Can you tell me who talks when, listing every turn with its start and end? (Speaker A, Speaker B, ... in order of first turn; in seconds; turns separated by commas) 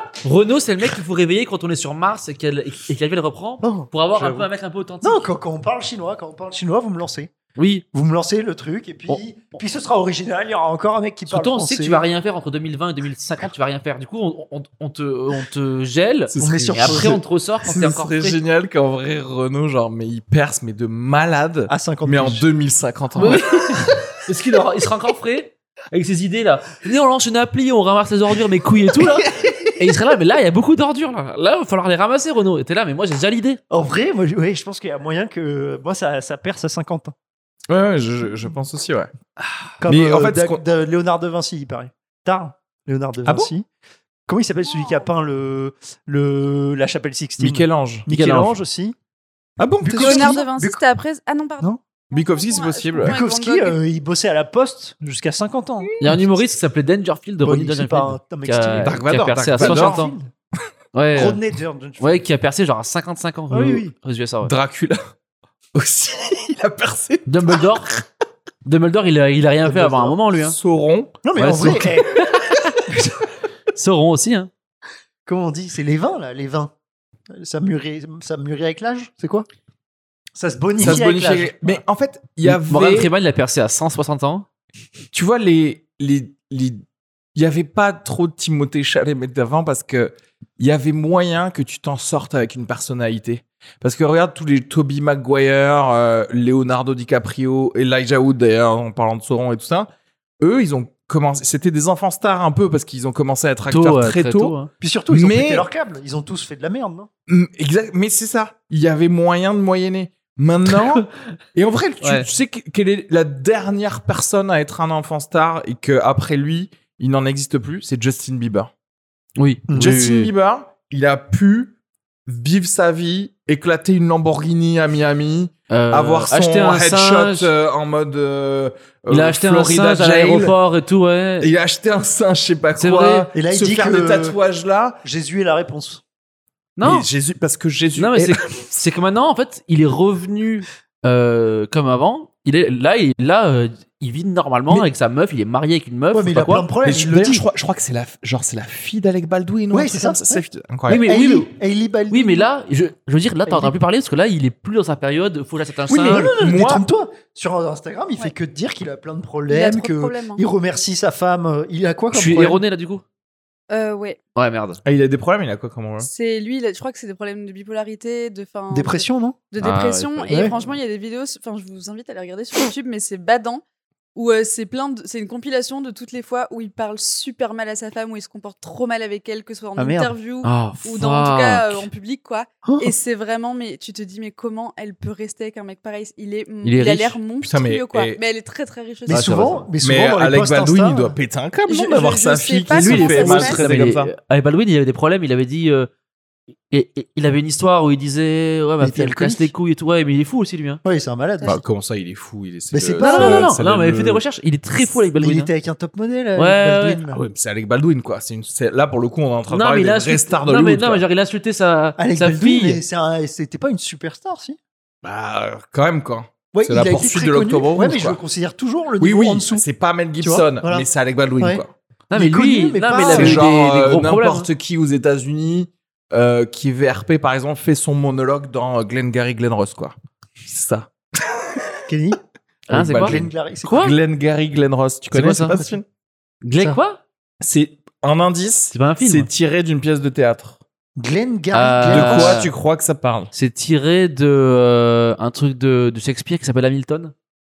Speaker A: 0.2-5.3, Speaker B: 3.6-4.5, Speaker B: 5.0-7.3, Speaker A: 7.6-7.8, Speaker B: 7.9-12.0, Speaker A: 11.3-18.4, Speaker C: 16.3-23.4, Speaker B: 16.4-17.2, Speaker B: 21.7-22.5, Speaker A: 23.2-33.6, Speaker B: 23.2-24.1, Speaker B: 29.0-29.9, Speaker B: 33.7-37.1, Speaker C: 37.7-39.1, Speaker B: 39.8-43.7, Speaker C: 39.8-40.6, Speaker C: 43.3-43.5, Speaker B: 44.3-49.0, Speaker D: 44.7-45.1, Speaker C: 47.4-48.1, Speaker A: 48.1-48.6, Speaker C: 49.6-50.4, Speaker B: 49.8-50.8, Speaker D: 50.0-53.8, Speaker C: 52.1-53.2, Speaker B: 53.0-56.2, Speaker A: 56.0-60.1, Speaker B: 57.4-60.3, Speaker C: 58.9-60.1, Speaker A: 60.9-61.4, Speaker B: 61.1-62.2, Speaker A: 62.0-64.5, Speaker B: 63.5-63.9, Speaker C: 64.4-65.0, Speaker C: 65.7-67.8, Speaker A: 67.3-67.9, Speaker A: 68.7-70.6, Speaker B: 69.7-70.2, Speaker C: 70.4-71.2, Speaker B: 71.2-72.2, Speaker A: 71.4-72.8, Speaker B: 72.9-73.2, Speaker A: 73.7-74.5, Speaker B: 75.3-76.7, Speaker B: 77.3-79.5, Speaker B: 80.3-81.8, Speaker C: 80.8-83.1, Speaker A: 82.5-84.5, Speaker C: 85.1-86.8, Speaker C: 87.3-99.9, Speaker C: 100.4-104.6, Speaker A: 103.7-104.7, Speaker B: 104.8-107.1, Speaker C: 105.1-105.7, Speaker C: 107.3-118.7, Speaker A: 112.0-112.3, Speaker A: 119.4-120.3, Speaker B: 119.7-120.0, Speaker C: 119.8-121.8, Speaker C: 122.3-130.6, Speaker A: 125.7-127.5, Speaker A: 129.1-131.5, Speaker C: 131.4-135.0, Speaker A: 132.8-133.3, Speaker B: 133.3-134.4, Speaker B: 135.0-136.0, Speaker A: 136.8-137.1, Speaker C: 136.8-138.6, Speaker A: 138.0-146.7, Speaker B: 146.1-147.4, Speaker C: 146.8-151.1, Speaker B: 149.7-152.5, Speaker A: 150.9-151.5, Speaker A: 152.1-156.3, Speaker B: 153.5-153.8, Speaker C: 155.9-156.8, Speaker B: 156.0-162.6, Speaker D: 159.5-160.4, Speaker A: 162.1-163.0, Speaker D: 163.7-164.2, Speaker A: 164.3-164.8, Speaker C: 164.8-166.1, Speaker D: 166.0-173.6, Speaker B: 168.7-169.4, Speaker A: 169.6-170.8, Speaker D: 174.2-189.5, Speaker B: 179.8-180.1, Speaker A: 180.4-181.9, Speaker B: 182.7-182.9, Speaker A: 186.6-187.2, Speaker C: 187.4-188.2, Speaker B: 189.1-191.2, Speaker A: 189.1-189.7, Speaker C: 189.8-194.1, Speaker D: 191.7-193.6, Speaker A: 192.7-195.9, Speaker A: 196.7-200.8, Speaker B: 198.8-199.5, Speaker B: 200.8-201.6, Speaker C: 201.4-204.2, Speaker B: 202.7-203.5, Speaker A: 203.0-205.5, Speaker B: 205.2-207.2, Speaker A: 206.4-207.0, Speaker C: 207.1-211.0, Speaker A: 209.5-212.8, Speaker B: 212.0-214.6, Speaker C: 215.0-218.2, Speaker B: 216.5-219.7, Speaker C: 219.0-221.7, Speaker B: 220.2-220.9, Speaker A: 222.1-224.5, Speaker B: 222.2-223.4, Speaker C: 223.1-231.7, Speaker B: 231.9-232.2, Speaker B: 232.7-233.8, Speaker A: 232.7-234.0, Speaker C: 232.7-235.8, Speaker A: 235.1-235.6, Speaker A: 236.4-237.0, Speaker C: 237.4-240.6, Speaker A: 238.7-239.3, Speaker B: 241.0-242.5, Speaker A: 241.5-242.5, Speaker C: 241.9-243.3, Speaker A: 243.3-247.1